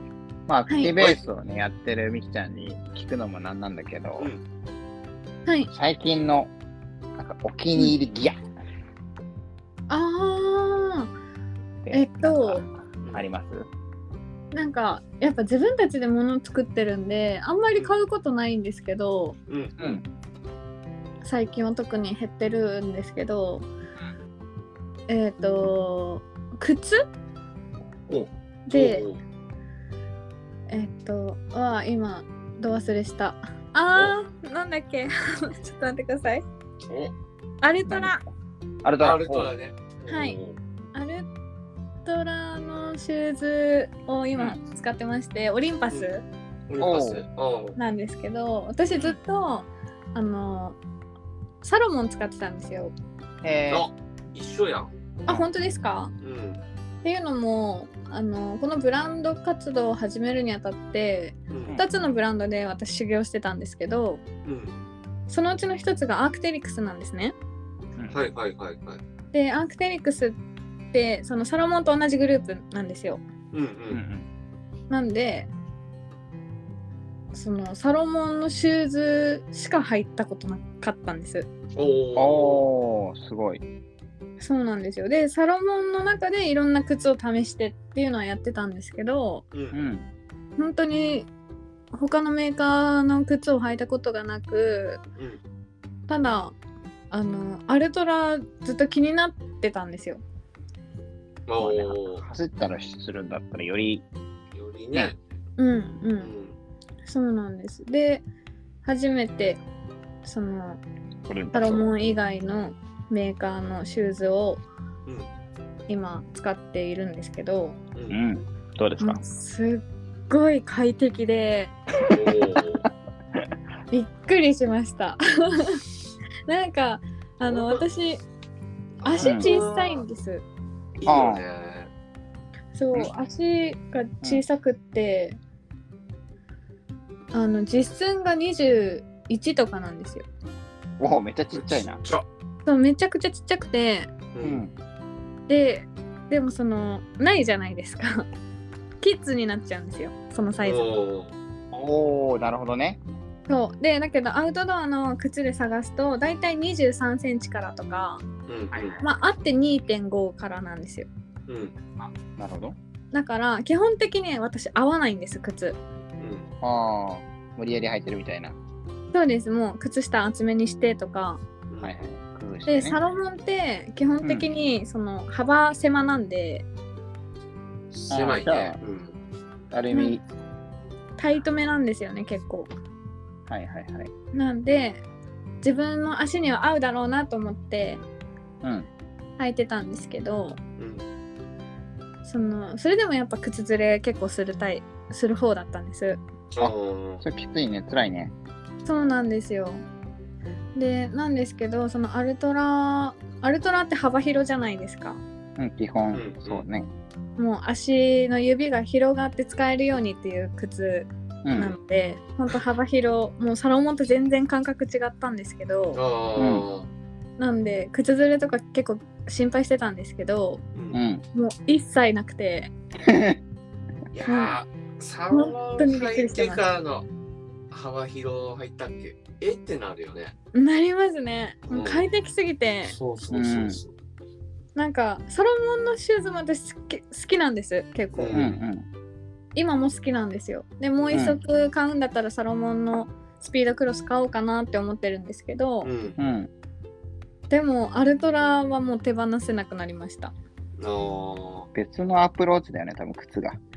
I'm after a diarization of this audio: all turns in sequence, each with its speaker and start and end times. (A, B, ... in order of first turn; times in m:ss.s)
0:00.5-0:04.3 A
0:00.7-0:00.9 B
0:05.7-0:06.5 A
0:07.2-0:08.4 A
0:09.9-0:11.1 B
0:11.8-0:13.6 A
0:11.9-0:12.6 B
0:13.0-0:13.3 C
0:14.5-0:19.4 B
0:19.5-0:19.9 C
0:19.8-0:20.0 A
0:21.2-0:23.7 B
0:25.1-0:27.0 B
0:28.1-0:29.2 C
0:28.7-0:29.0 B
0:30.7-0:36.4 B
0:36.8-0:37.1 C
0:37.6-0:38.2 B
0:37.9-0:38.1 A
0:38.8-0:39.5 A
0:39.0-0:40.6 C
0:40.1-0:40.4 B
0:40.9-0:41.3 B
0:42.0-0:46.2 B
0:46.7-0:47.8 C
0:46.8-0:47.2 A
0:47.8-0:50.8 B
0:51.6-0:52.9 B
0:53.4-0:53.9 A
0:53.7-0:54.9 C
0:55.3-0:56.1 B
0:56.2-0:56.6 C
0:57.0-1:04.2 B
1:01.5-1:01.8 C
1:04.4-1:04.7 C
1:05.3-1:07.3 B
1:08.1-1:09.0 C
1:09.3-1:10.4 B
1:10.9-1:13.2 B
1:13.5-1:14.0 C
1:13.9-1:14.2 A
1:14.9-1:15.5 B
1:17.3-1:21.5 B
1:21.7-1:22.7 C
1:22.2-1:23.6 A
1:24.4-1:29.4 B
1:29.5-1:29.8 C
1:29.7-1:30.1 A
1:30.6-1:31.3 B
1:31.9-1:35.0 B
1:36.1-1:36.5 B
1:37.1-1:40.2 B
1:41.5-1:42.2 C
1:41.6-1:44.0 A
1:44.5-1:45.2 C
1:45.6-1:46.3 B
1:46.2-1:46.6 C
1:47.0-1:48.2 B
1:48.8-1:49.6 B
1:50.2-1:50.8 B
1:51.3-1:51.9 A
1:51.5-1:54.6 B
1:55.9-1:57.8 B
1:58.1-1:59.2 A
1:59.0-2:01.7 B
2:02.1-2:02.8 C
2:03.9-2:05.8 B
2:06.5-2:08.2 B
2:07.4-2:07.8 C
2:09.0-2:10.0 C
2:09.0-2:10.4 B
2:09.2-2:09.6 A
2:11.0-2:11.9 C
2:11.0-2:11.4 A
2:12.7-2:15.4 B
2:17.3-2:20.2 B
2:21.0-2:22.0 A
2:21.5-2:22.2 C
2:22.6-2:24.1 B
2:24.3-2:24.6 C
2:24.4-2:24.7 A
2:25.5-2:28.3 B
2:29.0-2:30.8 B
2:30.6-2:31.3 C
2:31.7-2:33.0 A
2:33.5-2:38.2 B
2:38.5-2:39.0 C
2:38.7-2:39.0 A
2:39.0-2:41.1 B
2:41.5-2:41.7 C
2:42.0-2:42.8 A
2:43.1-2:45.8 B
2:46.2-2:46.5 C
2:46.6-2:48.6 A
2:49.1-2:51.4 B
2:51.7-2:51.9 C
2:51.8-2:53.0 A
2:52.7-2:56.6 B
2:57.9-2:59.2 C
2:58.1-2:58.8 A
2:59.7-3:00.2 A
2:59.9-3:00.2 B
3:01.2-3:02.7 B
3:03.5-3:04.1 A
3:04.3-3:05.0 B
3:05.6-3:08.0 B
3:08.6-3:08.9 A
3:09.4-3:10.6 B
3:10.8-3:11.0 C
3:12.2-3:16.2 B
3:16.5-3:17.2 C
3:16.6-3:18.3 A
3:18.8-3:19.8 B
3:20.8-3:25.2 B
3:25.6-3:26.9 A
3:26.1-3:26.6 C
3:27.4-3:36.0 B
3:31.4-3:31.8 A
3:35.9-3:36.9 C
3:36.4-3:36.6 A
3:37.4-3:40.6 B
3:40.7-3:41.0 C
3:40.9-3:41.2 A
3:41.3-3:42.7 B
3:43.0-3:43.4 A
3:44.1-3:47.1 C
3:44.2-3:44.6 B
3:45.3-3:46.6 B
3:47.7-3:50.3 C
3:50.5-3:53.0 B
3:51.7-3:52.0 C
3:52.9-3:53.9 C
3:53.3-3:53.8 A
3:54.8-3:58.4 B
3:58.1-3:58.6 C
3:58.3-3:58.9 A
3:59.5-4:05.9 B
4:01.0-4:01.3 C
4:01.1-4:01.4 A
4:05.8-4:06.2 C
4:06.2-4:06.5 A
4:07.5-4:10.3 B
4:10.8-4:11.7 C
4:11.7-4:13.6 A